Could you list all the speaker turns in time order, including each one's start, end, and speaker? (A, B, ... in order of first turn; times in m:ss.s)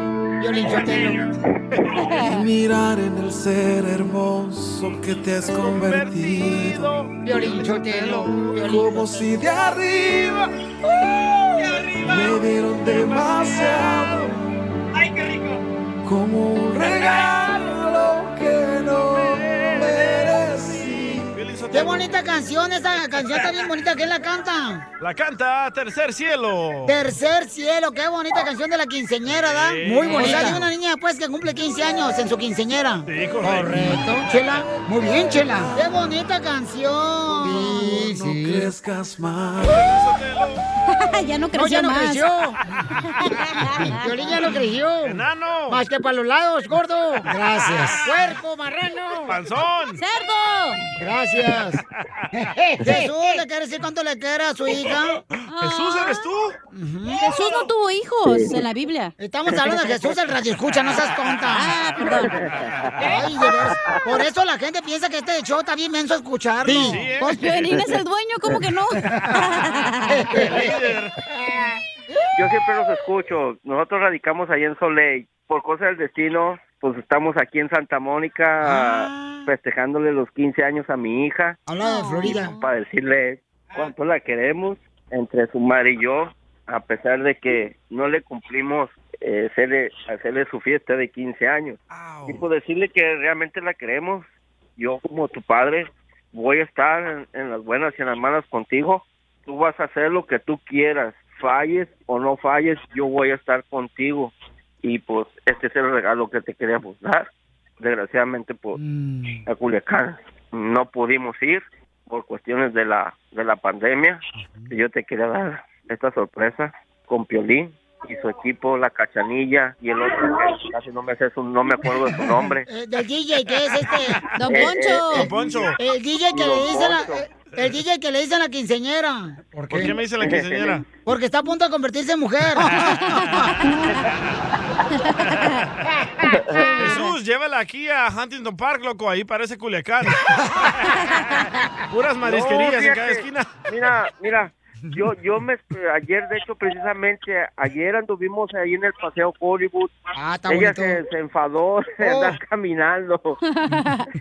0:00.4-0:01.3 A
0:02.0-0:10.5 B
0:05.4-0:07.7 C
0:07.2-0:09.3 A
0:12.0-0:14.4 B
0:16.0-0:21.4 B
0:21.3-0:22.0 C
0:21.7-0:24.9 A
0:25.0-0:27.0 C
0:26.9-0:38.7 A
0:29.3-0:30.7 C
0:30.1-0:30.5 D
0:33.1-0:34.7 C
0:34.8-0:35.6 B
0:37.3-0:39.9 B
0:39.6-0:40.6 C
0:40.9-0:42.3 D
0:41.5-0:49.4 A
0:43.1-0:44.5 D
0:45.0-0:45.8 C
0:47.6-0:48.1 C
0:49.3-0:50.0 C
0:50.0-0:50.8 D
0:51.0-0:51.8 A
0:52.3-0:55.2 A
0:52.8-0:53.4 D
0:55.5-0:56.2 D
0:55.6-0:56.6 C
0:56.7-0:57.3 A
0:57.2-0:59.1 D
0:58.3-0:58.5 E
0:59.2-1:01.8 A
1:01.5-1:02.4 D
1:02.6-1:03.1 C
1:03.0-1:07.1 A
1:06.6-1:07.4 C
1:07.2-1:10.4 D
1:10.1-1:11.8 A
1:10.3-1:11.1 C
1:12.4-1:21.6 E
1:18.6-1:19.5 A
1:21.7-1:22.5 A
1:21.8-1:22.4 D
1:22.2-1:34.2 E
1:32.0-1:32.4 C
1:34.8-1:44.3 E
1:44.8-1:47.3 E
1:47.8-1:48.8 E
1:48.8-1:49.4 A
1:49.5-2:02.7 E
2:02.7-2:04.2 A
2:04.4-2:05.3 D
2:04.5-2:05.6 E
2:05.1-2:05.8 C
2:05.8-2:10.0 A
2:06.3-2:07.3 E
2:09.7-2:10.8 C
2:10.2-2:10.8 E
2:11.1-2:12.9 A
2:12.8-2:13.5 C
2:15.4-2:15.8 C
2:16.3-2:16.7 E
2:16.8-2:17.1 D
2:16.8-2:23.7 C
2:22.2-2:29.9 E
2:30.2-2:31.0 A
2:30.5-2:33.4 E
2:32.0-2:32.4 A
2:33.5-2:34.1 D